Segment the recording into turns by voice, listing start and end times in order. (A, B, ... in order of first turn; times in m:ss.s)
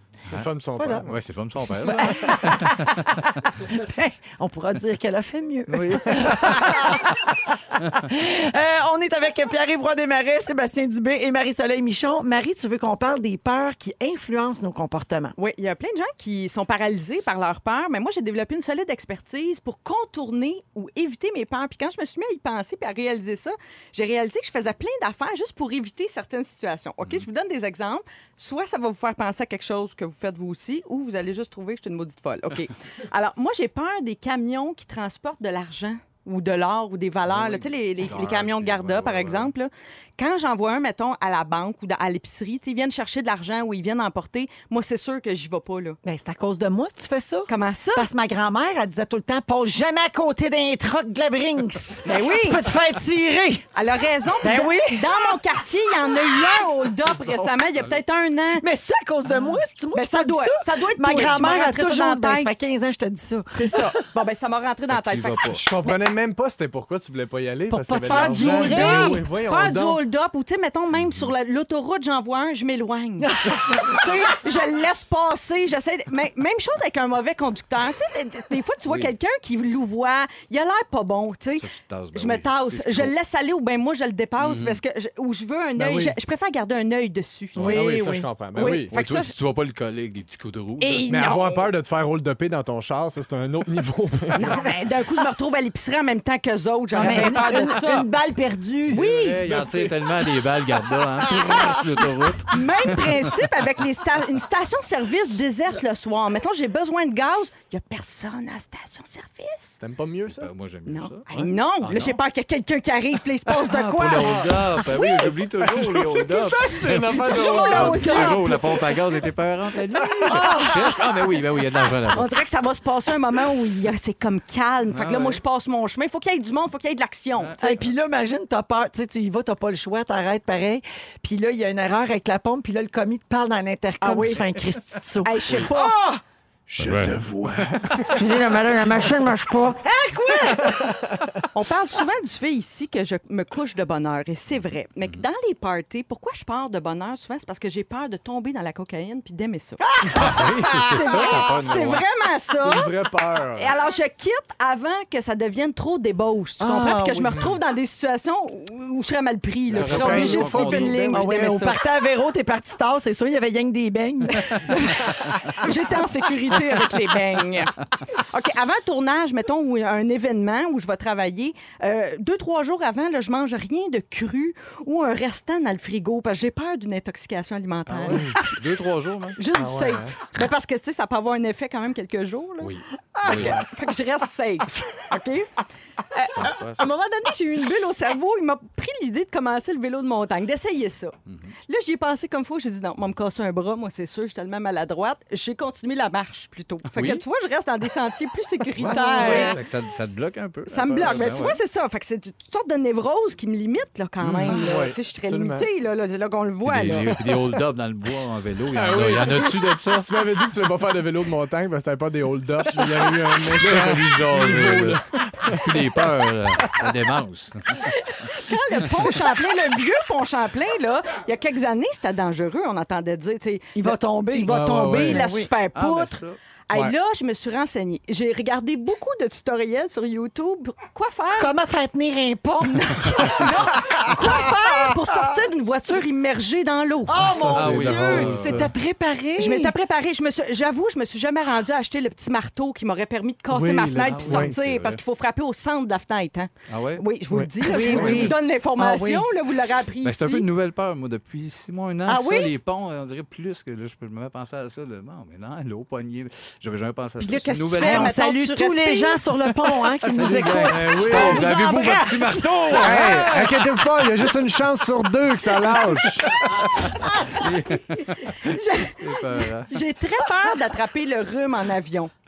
0:00.3-0:03.3 A
0:00.3-0:01.2 B
0:00.8-0:01.1 C
0:02.0-0:15.3 C
0:05.7-0:07.0 A
0:15.4-0:46.0 D
0:27.0-0:27.3 A
0:37.3-0:39.5 A
0:46.0-0:53.7 C
0:47.5-0:48.1 D
0:52.0-0:52.6 D
0:53.7-0:58.6 D
0:54.4-0:55.1 C
0:57.7-0:58.0 A
0:58.6-1:03.8 C
0:59.9-1:02.5 D
1:03.5-1:05.6 D
1:04.9-1:05.6 A
1:05.5-1:10.0 B
1:07.7-1:09.2 C
1:08.0-1:29.3 D
1:10.9-1:11.3 A
1:13.2-1:14.4 C
1:18.9-1:19.1 A
1:21.6-1:23.1 A
1:24.4-1:24.8 A
1:25.8-1:26.1 B
1:27.6-1:27.9 A
1:27.6-1:28.9 B
1:27.9-1:28.2 C
1:28.6-1:31.1 A
1:30.8-1:31.6 C
1:31.1-1:34.5 B
1:34.3-1:38.1 D
1:36.9-1:39.0 C
1:38.9-1:39.5 D
1:38.9-1:43.3 A
1:39.4-1:40.0 B
1:41.4-1:41.8 B
1:42.5-1:49.8 D
1:49.8-1:50.5 B
1:50.2-1:52.2 A
1:50.9-1:55.0 D
1:53.6-2:02.3 A
1:55.6-1:58.6 B
1:57.0-1:58.9 D
2:00.1-2:00.4 B
2:00.3-2:00.9 C
2:02.1-2:07.8 D
2:04.9-2:05.4 A
2:07.6-2:16.2 C
2:14.0-2:14.6 D
2:15.2-2:15.9 D
2:16.7-2:18.2 B
2:16.8-2:17.8 A
2:18.0-2:20.7 C
2:18.8-2:19.2 B
2:19.9-2:20.7 D
2:20.6-2:20.9 B
2:21.5-2:29.8 D
2:30.1-2:32.0 A
2:30.8-2:32.9 D
2:31.1-2:31.5 B
2:32.6-2:33.7 B
2:33.6-2:41.8 D
2:36.6-2:37.3 C
2:39.7-2:41.1 A
2:39.7-2:41.2 B
2:41.1-2:45.3 C
2:44.6-2:58.6 D
2:57.9-2:59.4 A
2:59.4-3:05.5 D
2:59.5-3:00.1 B
3:02.6-3:03.6 A
3:03.2-3:03.7 B
3:06.1-3:11.2 D
3:06.4-3:06.8 A
3:11.3-3:11.5 A
3:11.7-3:19.5 D
3:16.9-3:17.2 A
3:18.8-3:21.6 A
3:18.8-3:19.4 B
3:19.0-3:19.6 C
3:20.7-3:27.2 D
3:24.2-3:25.6 B
3:24.3-3:24.6 A
3:26.6-3:30.2 A
3:28.7-3:36.0 B
3:33.4-3:37.9 A
3:37.8-3:44.0 D
3:43.7-3:45.5 C
3:44.3-3:45.2 B
3:44.8-3:51.5 D
3:45.7-3:46.4 A
3:51.4-3:53.5 C
3:52.8-3:57.4 D
3:57.1-3:59.7 C
3:57.2-3:58.7 B
3:57.5-3:58.7 A
3:59.4-4:10.4 D
4:03.5-4:04.6 B
4:04.0-4:05.0 A
4:06.7-4:07.0 A
4:07.3-4:08.0 B
4:07.6-4:09.3 C
4:07.8-4:08.4 A
4:10.0-4:18.1 A
4:12.0-4:12.5 D
4:17.2-4:19.2 D
4:17.7-4:21.5 C
4:20.0-4:24.3 A
4:20.2-4:21.9 B
4:21.0-4:23.2 D
4:22.6-4:26.4 B
4:25.6-4:29.8 A
4:28.4-4:32.1 D